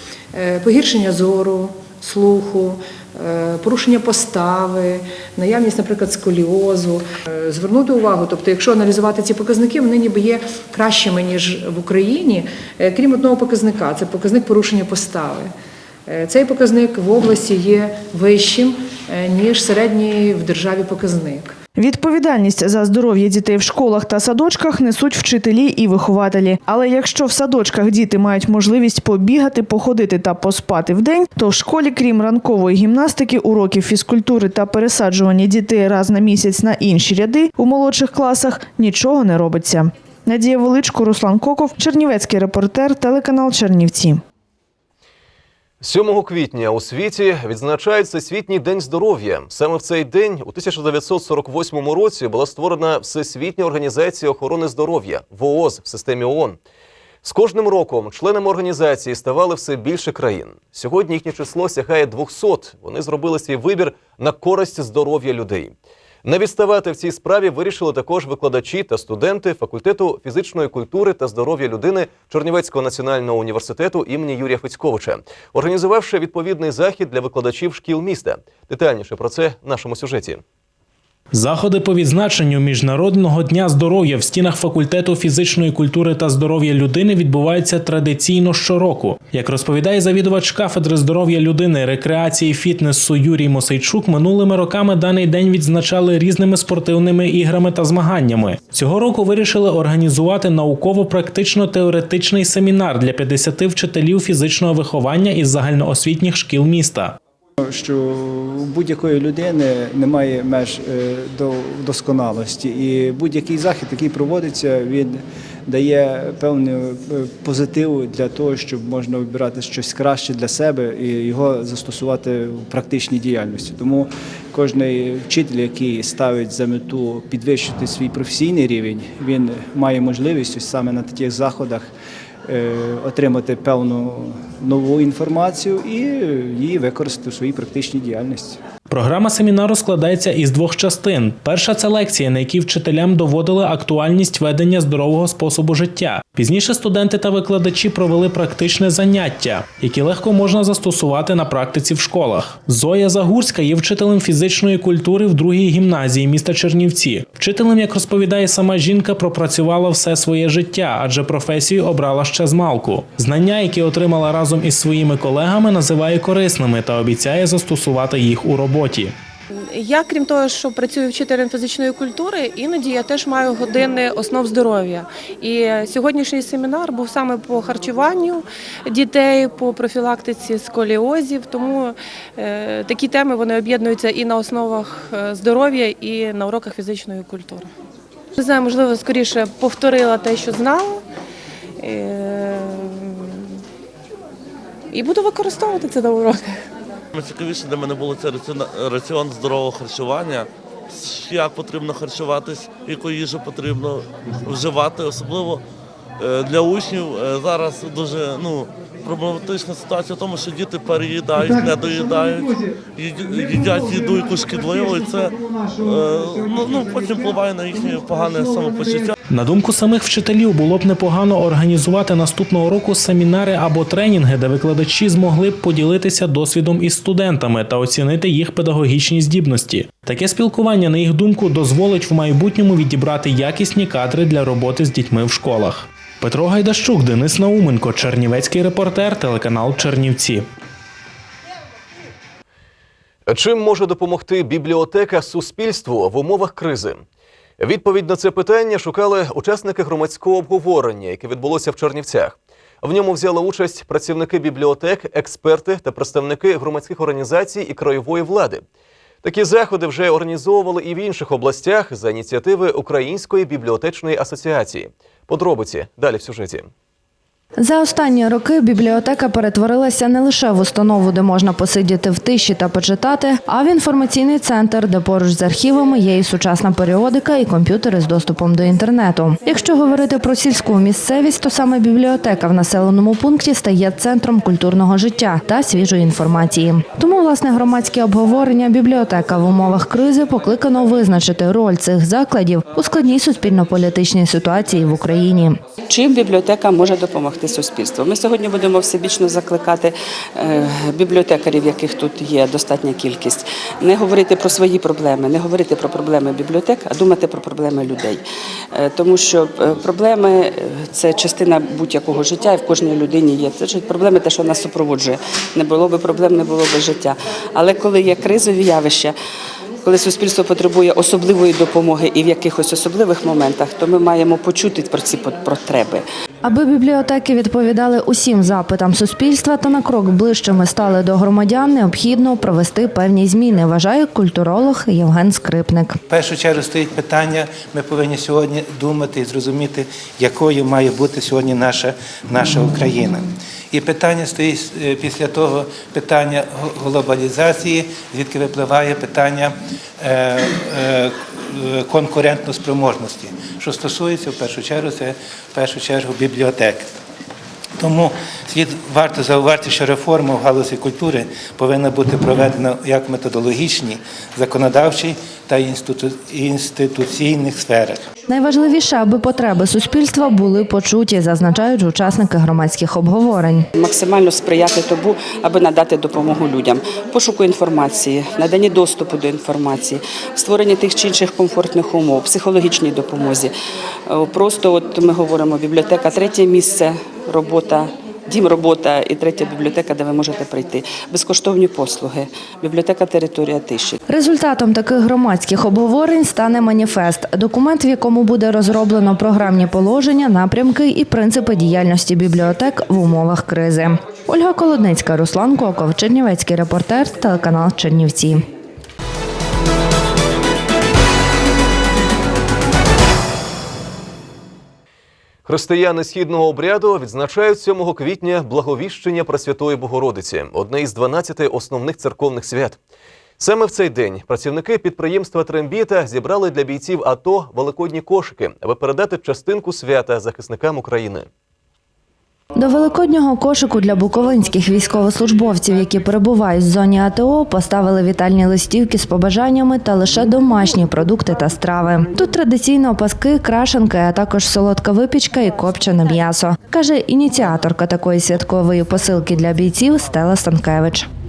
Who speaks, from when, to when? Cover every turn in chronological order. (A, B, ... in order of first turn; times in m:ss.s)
0:00.3-0:15.5 A
0:16.0-0:21.5 A
0:21.8-0:44.2 B
0:45.8-0:56.6 C
0:57.2-1:05.7 C
1:06.2-1:20.4 C
1:21.3-1:47.2 D
1:47.6-2:11.9 E
2:12.4-2:18.6 E
2:18.9-2:49.1 D
2:49.7-3:07.7 F
3:08.4-3:11.0 F
3:11.8-3:13.4 F
3:14.9-3:16.6 F
3:17.1-3:25.6 G
3:26.2-3:39.1 G
3:39.3-4:00.4 D
4:03.3-4:07.0 C
4:07.6-4:18.6 C
4:19.2-4:26.7 C
4:27.6-4:55.5 H
4:55.9-5:08.2 I
5:08.7-5:19.1 I
5:19.8-5:26.0 I
5:26.4-5:35.9 H
5:36.1-5:56.9 J
5:57.8-6:08.0 J
6:08.3-6:13.6 H
6:13.8-6:23.5 I
6:24.1-6:33.8 I
6:34.1-6:48.3 H
6:55.4-7:02.8 C
7:03.4-7:11.3 C
7:12.6-7:31.0 H